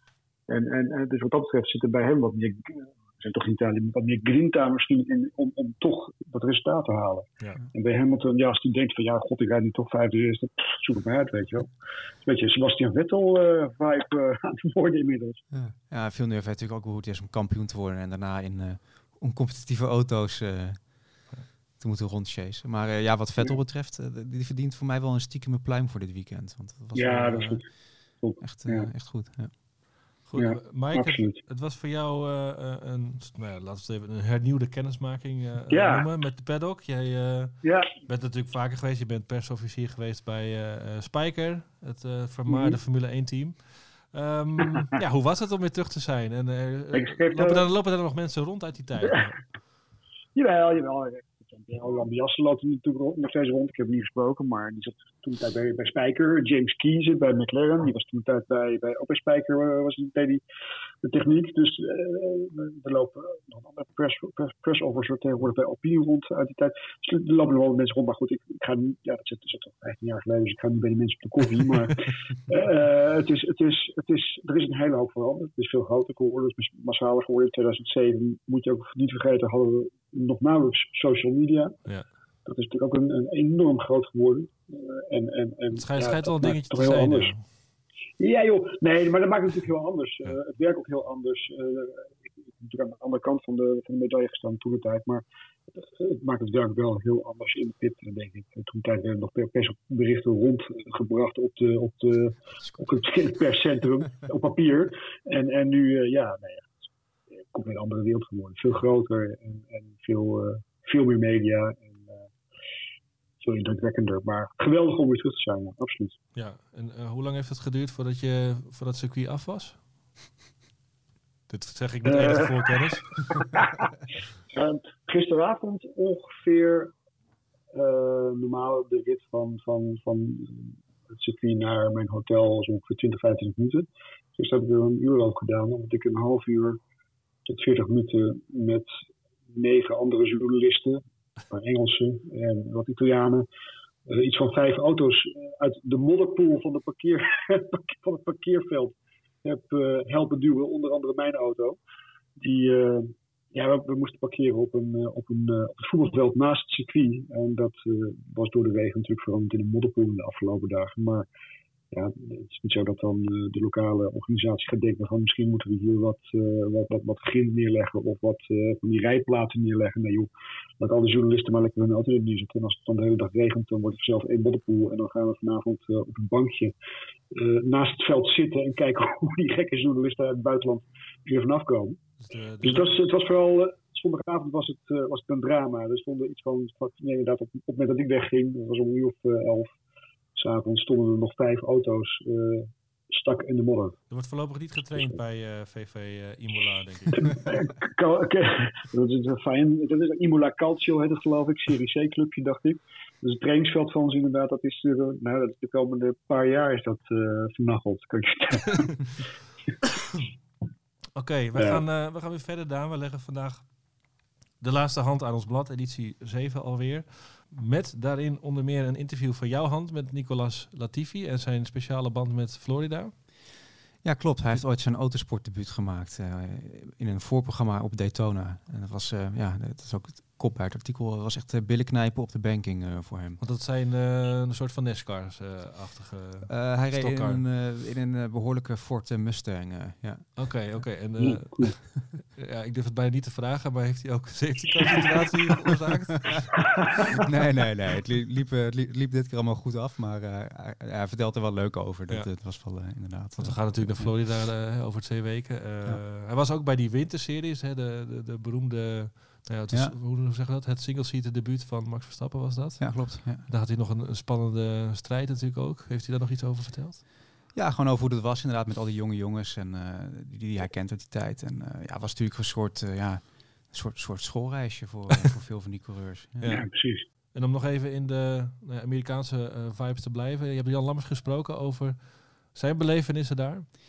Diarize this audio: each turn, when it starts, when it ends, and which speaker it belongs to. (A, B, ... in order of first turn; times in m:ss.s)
0:00.5-0:11.7 A
0:12.2-0:15.4 A
0:15.5-0:27.7 B
0:27.0-0:28.9 A
0:28.4-0:29.5 B
0:30.3-0:49.4 C
0:30.4-0:31.4 A
0:35.7-0:36.1 A
0:37.6-0:37.9 A
0:42.5-0:42.8 A
0:46.9-0:47.6 A
0:50.4-1:00.4 A
1:01.0-1:21.8 A
1:22.4-1:27.4 A
1:25.7-1:27.4 C
1:28.2-1:46.8 A
1:47.5-1:52.3 A
1:53.4-1:56.2 A
1:56.4-1:59.8 C
2:01.5-2:03.4 C
2:02.0-2:02.7 A
2:03.5-2:03.8 A
2:04.5-2:06.9 A
2:07.7-2:16.8 A
2:17.5-2:18.9 A
2:19.5-2:23.5 A
2:24.1-2:31.8 A
2:32.4-2:41.2 A
2:41.9-2:56.7 A
2:57.3-3:02.0 A
3:02.2-3:03.0 C
3:02.6-3:09.7 A
3:10.4-3:14.0 A
3:14.1-3:17.5 C
3:17.1-3:29.0 A
3:31.2-3:33.7 C
3:31.6-3:31.8 A
3:34.6-3:43.1 C
3:44.0-3:53.4 B
3:53.4-3:57.4 C
3:56.5-4:00.8 B
4:00.4-4:06.7 C
4:01.2-4:01.7 A
4:07.2-4:14.1 B
4:13.4-4:27.0 C
4:22.8-4:23.5 B
4:27.5-4:36.6 B
4:36.4-4:36.7 C
4:36.5-4:37.1 A
4:37.3-4:43.7 C